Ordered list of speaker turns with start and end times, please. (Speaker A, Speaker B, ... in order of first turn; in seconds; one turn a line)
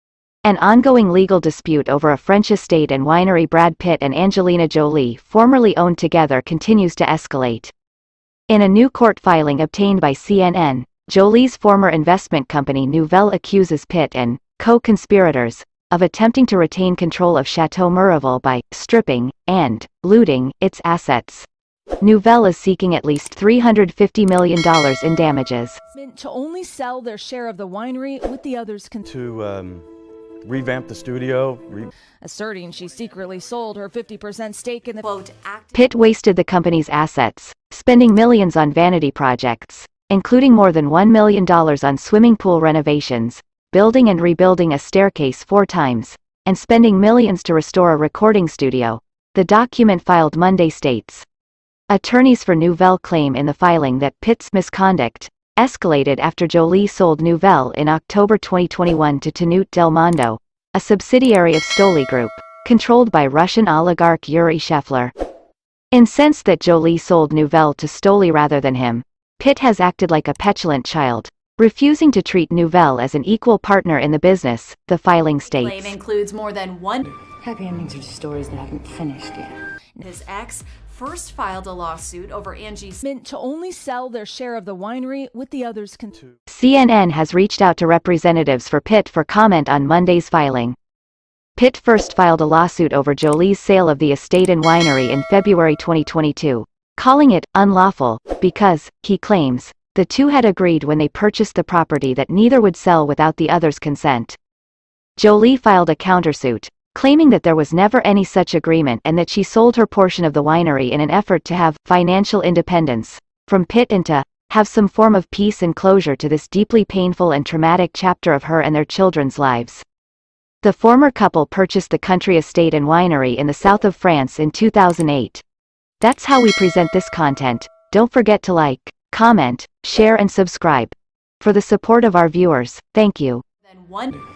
Speaker A: 0.4-7.7
Speaker A: 8.5-21.5
Speaker A: 22.0-25.8
Speaker B: 25.9-29.1
Speaker C: 29.0-29.9
Speaker C: 30.4-31.9
Speaker B: 32.2-35.1
Speaker D: 35.0-36.0
Speaker A: 35.7-51.2
Speaker A: 51.9-65.1
Speaker A: 65.9-75.9
Speaker D: 75.4-77.1
Speaker E: 77.4-79.5
Speaker D: 80.0-83.0
Speaker B: 83.0-86.1
Speaker A: 86.5-90.8
Speaker A: 91.6-104.4
Speaker A: 105.2-119.8
Speaker A: 120.6-125.4
Speaker A: 126.0-133.4
Speaker D: 133.6-134.2